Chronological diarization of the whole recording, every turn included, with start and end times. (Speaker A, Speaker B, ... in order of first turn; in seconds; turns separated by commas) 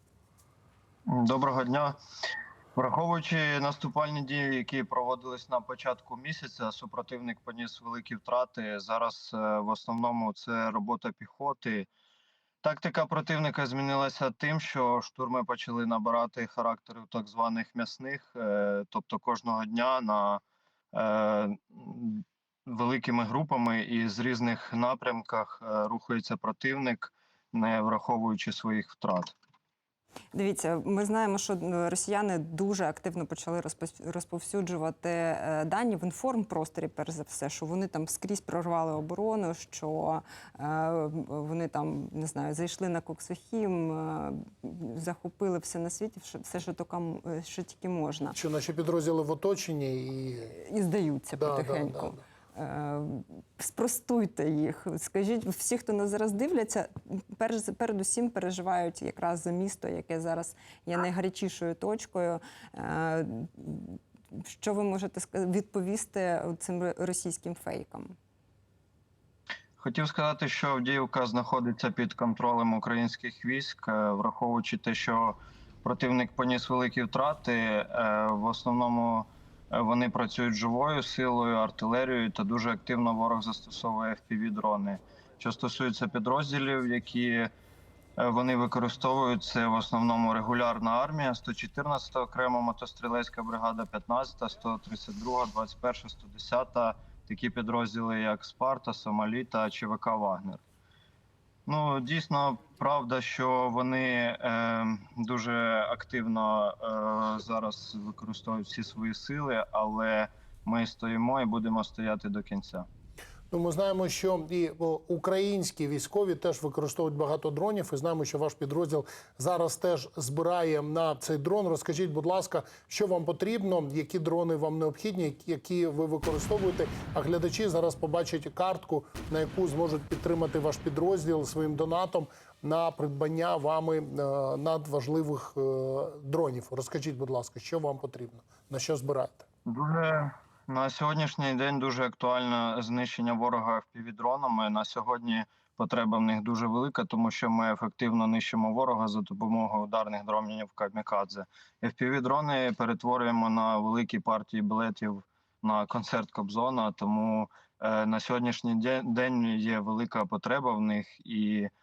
Speaker A: 1.1-1.9, Speaker A: 2.8-11.9, Speaker A: 12.6-20.4, Speaker A: 20.9-29.3, Speaker B: 30.3-48.4, Speaker C: 48.3-50.5, Speaker B: 50.6-68.2, Speaker C: 51.4-52.2, Speaker A: 69.8-87.5, Speaker A: 88.2-100.6, Speaker A: 101.7-112.9, Speaker C: 113.5-139.4, Speaker A: 139.7-161.7